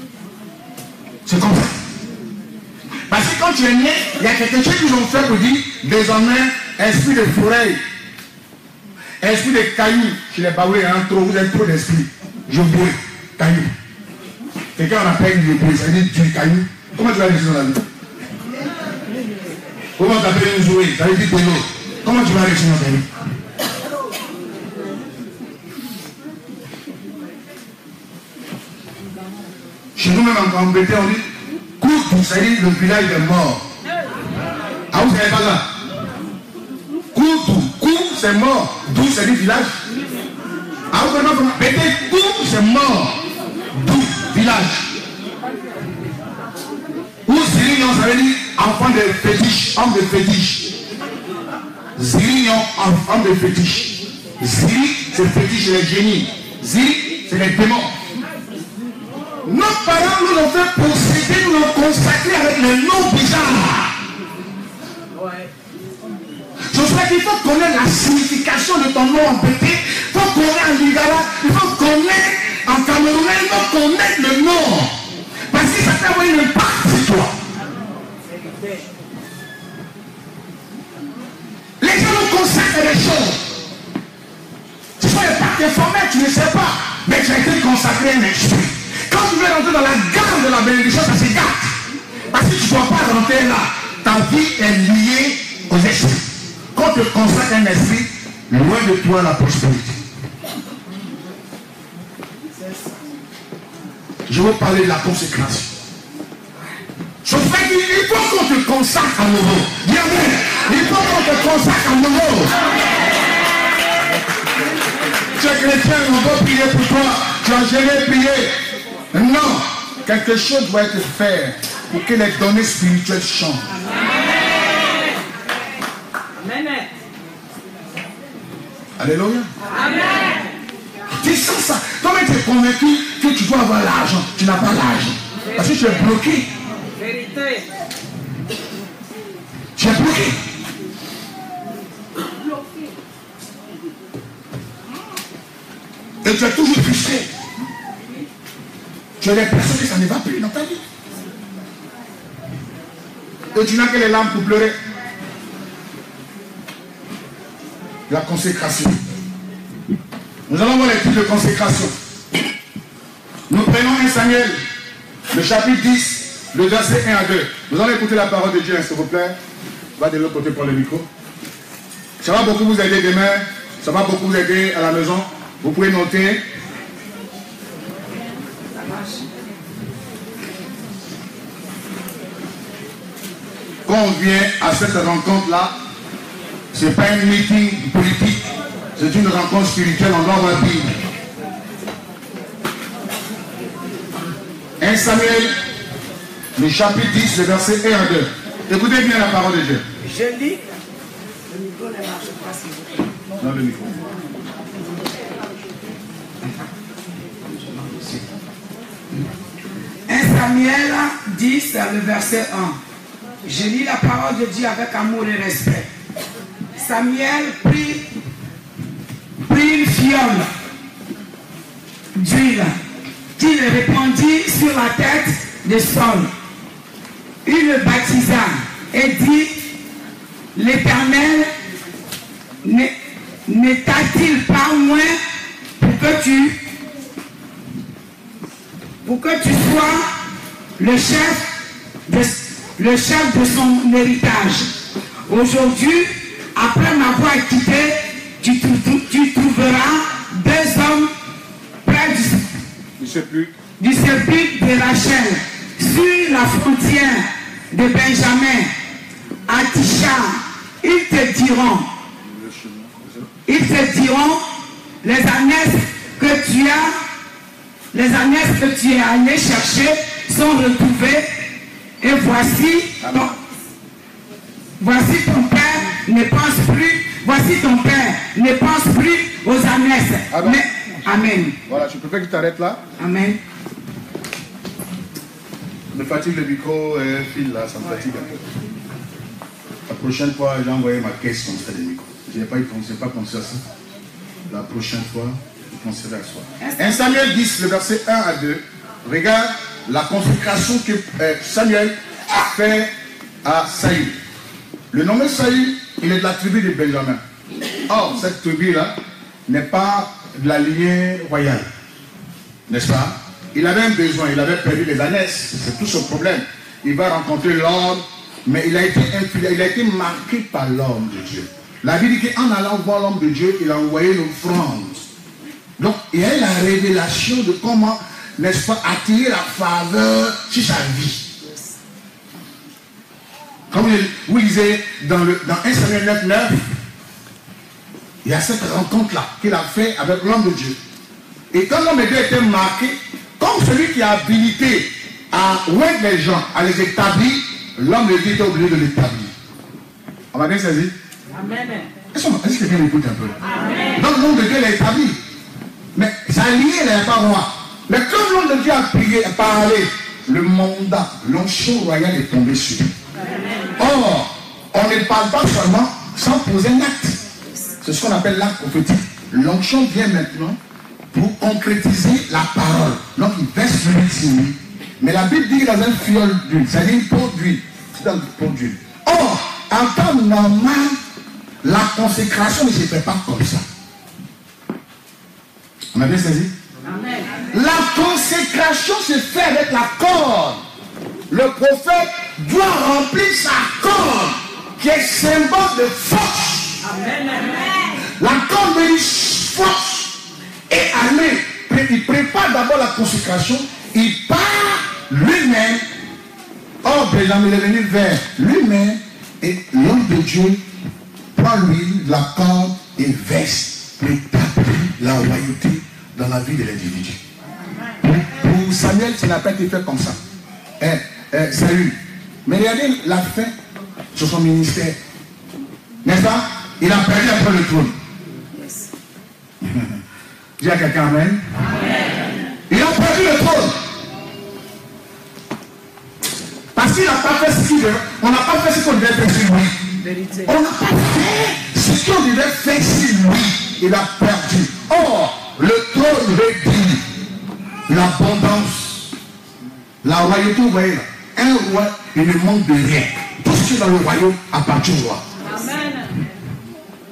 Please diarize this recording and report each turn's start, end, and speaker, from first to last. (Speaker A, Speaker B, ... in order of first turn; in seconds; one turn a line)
Speaker A: 1.2-1.8
Speaker A: 3.1-7.8
Speaker A: 9.2-13.7
Speaker A: 14.8-17.9
Speaker A: 20.0-23.1
Speaker A: 29.9-31.3
Speaker A: 31.8-33.6
Speaker A: 34.9-35.7
Speaker A: 37.1-39.8
Speaker A: 40.9-43.1
Speaker A: 43.7-44.9
Speaker A: 47.2-50.7
Speaker A: 52.0-57.9
Speaker A: 59.4-63.9
Speaker A: 66.7-74.9
Speaker A: 75.5-77.3
Speaker A: 81.8-83.5
Speaker A: 85.0-91.7
Speaker A: 92.3-100.0
Speaker A: 104.3-105.7
Speaker A: 107.2-112.5
Speaker A: 115.3-118.5
Speaker A: 119.1-123.7
Speaker B: 126.4-126.9
Speaker A: 129.0-129.5
Speaker A: 131.2-136.5
Speaker B: 137.0-137.7
Speaker A: 139.8-140.4
Speaker A: 146.2-147.3
Speaker A: 149.2-150.8
Speaker A: 153.5-154.8
Speaker A: 158.1-159.0
Speaker A: 160.5-161.9
Speaker A: 163.5-164.6
Speaker A: 165.3-169.4
Speaker A: 170.0-171.1
Speaker A: 172.2-176.4
Speaker A: 183.9-185.7
Speaker A: 186.7-190.9
Speaker A: 194.8-195.5
Speaker A: 196.6-199.8
Speaker C: 200.0-200.6
Speaker C: 201.5-202.9
Speaker A: 203.4-203.9
Speaker A: 207.8-208.2
Speaker C: 210.1-212.8
Speaker C: 213.4-215.9
Speaker C: 216.8-218.1
Speaker C: 219.4-220.5
Speaker C: 222.1-222.8
Speaker C: 223.4-226.3
Speaker C: 227.4-229.6
Speaker C: 230.5-231.5
Speaker C: 232.6-232.9
Speaker C: 233.5-235.2
Speaker C: 235.8-236.6
Speaker C: 239.0-240.2
Speaker C: 240.8-241.5
Speaker C: 242.1-251.1
Speaker C: 251.8-252.5
Speaker A: 253.0-253.5
Speaker C: 253.8-258.7
Speaker C: 259.5-261.9
Speaker A: 262.3-263.3
Speaker C: 263.5-264.4
Speaker C: 265.0-267.0
Speaker C: 267.9-271.3
Speaker C: 272.0-273.3
Speaker C: 274.8-281.6
Speaker A: 280.3-280.6
Speaker A: 281.6-282.8
Speaker C: 283.0-283.4
Speaker A: 285.9-288.4
Speaker A: 289.9-293.6
Speaker A: 294.5-302.9
Speaker C: 296.6-296.9
Speaker A: 303.4-304.2
Speaker A: 304.9-307.2
Speaker A: 307.9-308.9
Speaker A: 309.5-311.7
Speaker A: 312.7-325.0
Speaker A: 325.8-331.2
Speaker A: 333.7-336.6
Speaker A: 338.2-340.8
Speaker A: 341.5-349.3
Speaker A: 350.3-350.9
Speaker B: 351.3-351.9
Speaker A: 352.1-353.4
Speaker A: 353.9-355.2
Speaker A: 355.9-362.9
Speaker A: 363.8-367.2
Speaker A: 367.8-370.6
Speaker A: 371.1-381.0
Speaker A: 381.6-383.6
Speaker A: 385.9-386.5
Speaker B: 386.9-387.3
Speaker A: 387.5-390.6
Speaker A: 391.3-396.8
Speaker B: 396.9-397.7
Speaker A: 398.2-405.8
Speaker A: 406.8-410.6
Speaker A: 411.4-417.2
Speaker A: 418.0-420.2
Speaker A: 420.8-423.5
Speaker A: 424.1-425.0
Speaker A: 426.0-427.9
Speaker C: 428.5-428.9
Speaker A: 429.6-430.0
Speaker A: 430.6-431.4
Speaker A: 432.7-433.8
Speaker A: 436.7-439.8
Speaker C: 440.0-440.5
Speaker A: 440.4-447.0
Speaker A: 447.9-449.1
Speaker A: 450.0-455.2
Speaker B: 455.4-456.1